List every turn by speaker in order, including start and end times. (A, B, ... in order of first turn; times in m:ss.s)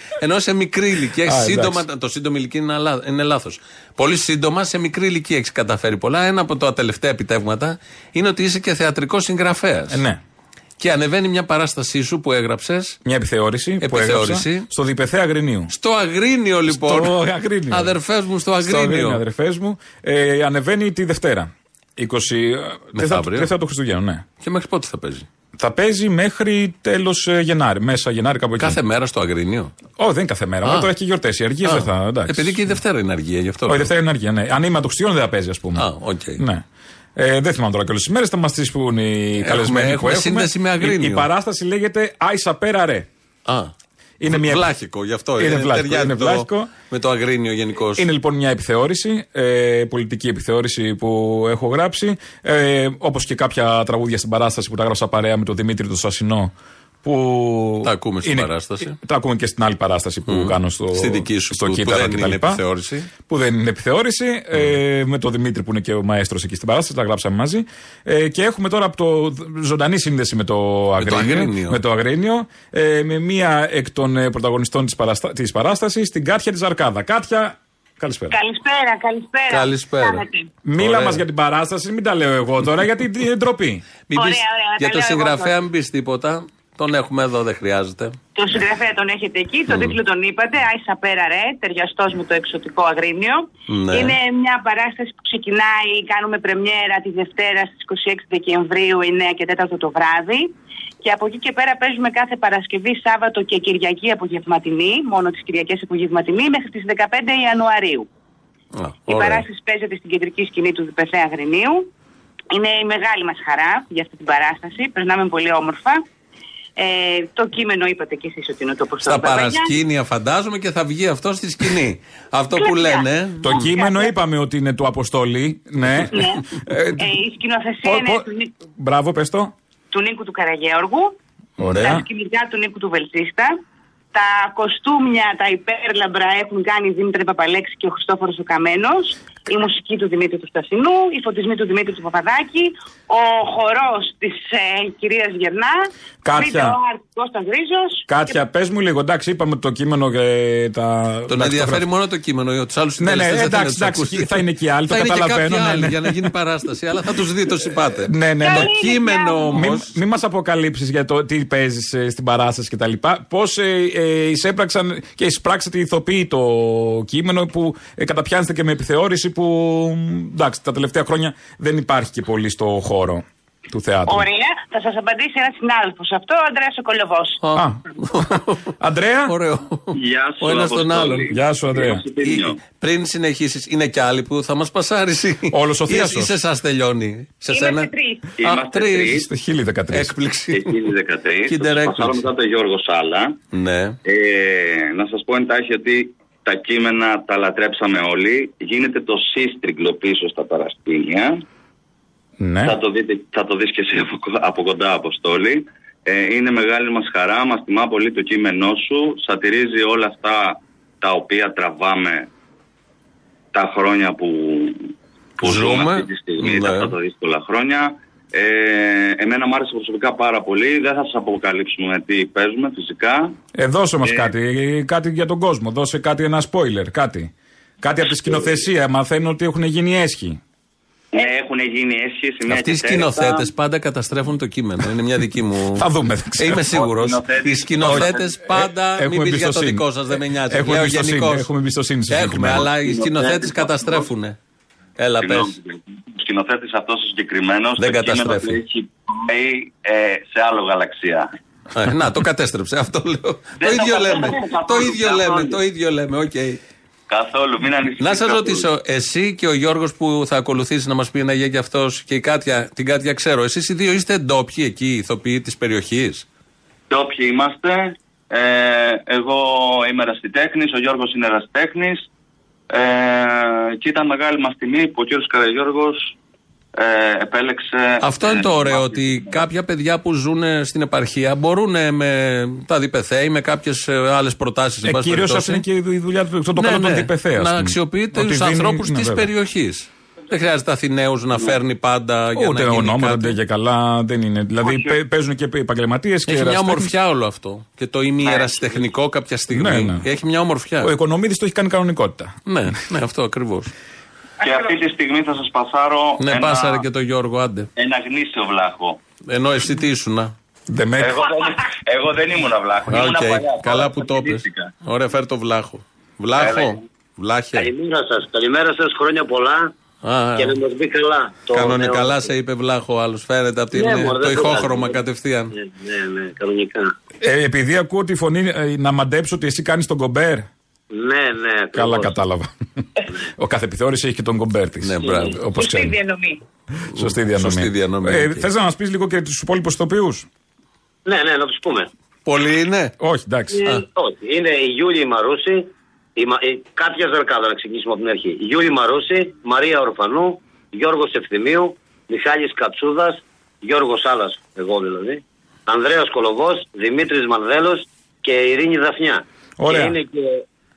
0:00.2-0:10.0 A
0:01.2-0:01.8 B
0:09.9-0:10.2 B
0:10.8-0:13.0 A
0:13.0-0:15.7 B
0:13.8-0:14.7 A
0:15.7-0:17.2 A
0:16.7-0:18.0 B
0:17.7-0:19.2 A
0:18.6-0:24.2 B
0:22.9-0:23.5 A
0:24.4-0:25.3 A
0:25.6-0:28.8 B
0:28.6-0:29.7 A
0:30.0-0:32.6 B
0:30.6-0:30.9 A
0:31.6-0:33.9 A
0:33.7-0:36.6 B
0:35.8-0:36.4 A
0:37.2-0:43.1 B
0:39.4-0:41.3 A
0:43.5-0:43.7 A
0:44.2-0:44.7 B
0:44.3-0:48.1 A
0:45.4-0:46.7 B
0:48.0-0:56.5 B
0:57.0-1:02.6 B
0:57.8-0:59.0 A
1:00.3-1:03.1 A
1:03.3-1:18.4 B
1:11.0-1:11.8 A
1:18.3-1:20.5 C
1:19.5-1:20.2 A
1:20.6-1:23.8 B
1:20.8-1:21.2 A
1:24.1-1:28.2 A
1:24.1-1:25.6 C
1:28.4-1:48.1 C
1:29.7-1:30.0 A
1:33.7-1:34.2 A
1:48.8-1:49.4 A
1:49.1-1:51.9 C
1:52.5-1:56.0 C
1:56.8-1:59.8 C
1:59.0-2:03.7 A
2:02.6-2:04.1 C
2:03.4-2:07.2 B
2:06.1-2:06.4 C
2:07.0-2:08.5 C
2:07.8-2:09.5 B
2:09.9-2:11.1 C
2:11.6-2:12.1 B
2:11.6-2:12.0 A
2:11.8-2:13.6 C
2:14.1-2:28.1 C
2:26.2-2:26.8 B
2:28.1-2:31.9 B
2:31.3-2:40.0 A
2:33.0-2:36.3 B
2:38.0-2:38.7 B
2:38.4-2:39.7 C
2:39.5-2:54.3 B
2:54.1-2:57.4 C
2:57.4-2:58.7 A
2:58.8-2:59.3 B
2:59.3-3:01.4 A
2:59.9-3:02.6 D
3:01.3-3:02.0 B
3:02.2-3:09.3 A
3:05.5-3:06.4 B
3:07.5-3:08.3 C
3:08.4-3:09.3 D
3:09.1-3:10.2 B
3:09.9-3:10.8 A
3:10.5-3:13.4 D
3:11.5-3:12.2 A
3:13.5-3:14.0 A
3:14.0-3:21.4 D
3:22.4-3:22.8 B
3:22.6-3:32.3 D
3:33.5-3:43.4 D
3:35.4-3:36.9 A
3:43.6-3:47.3 B
3:44.0-3:44.3 D
3:47.8-3:50.4 B
3:48.3-3:48.6 D
3:51.1-3:53.5 D
3:52.5-3:55.9 A
3:55.8-3:56.7 B
3:56.4-4:01.5 A
3:56.6-3:58.3 D
3:57.8-3:59.9 B
4:00.5-4:02.7 B
4:02.1-4:04.4 A
4:02.8-4:04.1 D
4:05.0-4:05.6 A
4:05.2-4:11.3 D
4:07.8-4:08.6 A
4:11.7-4:16.6 A
4:13.6-4:15.6 D
4:17.1-4:18.7 D
4:18.0-4:26.3 A
4:26.9-4:32.0 D
4:32.7-4:36.2 D
4:36.8-4:39.4 D
4:38.0-4:45.6 A
4:44.8-4:49.3 B
4:46.6-4:53.4 A
4:52.4-4:56.9 B
4:54.6-4:55.0 D
4:56.3-5:00.9 A
4:58.2-4:58.8 D
4:59.5-5:00.0 B
5:00.8-5:02.4 B
5:02.5-5:03.7 A
5:04.4-5:06.9 D
5:06.2-5:07.7 A
5:07.8-5:09.0 D
5:09.3-5:10.3 A
5:10.7-5:11.2 B
5:11.0-5:14.7 D
5:12.9-5:17.7 A
5:16.4-5:16.8 D
5:17.6-5:19.7 E
5:20.0-5:20.6 A
5:20.4-5:22.2 E
5:21.5-5:25.5 A
5:23.7-5:25.0 E
5:25.5-5:26.9 E
5:27.2-5:30.5 B
5:30.9-5:32.1 E
5:31.7-5:32.5 B
5:33.3-5:36.0 B
5:34.8-5:35.4 A
5:35.5-5:36.4 C
5:36.8-5:40.3 B
5:36.9-5:38.5 A
5:41.1-5:41.9 E
5:42.3-5:43.0 A
5:43.0-5:43.7 B
5:43.8-6:00.4 E
5:59.6-6:00.0 B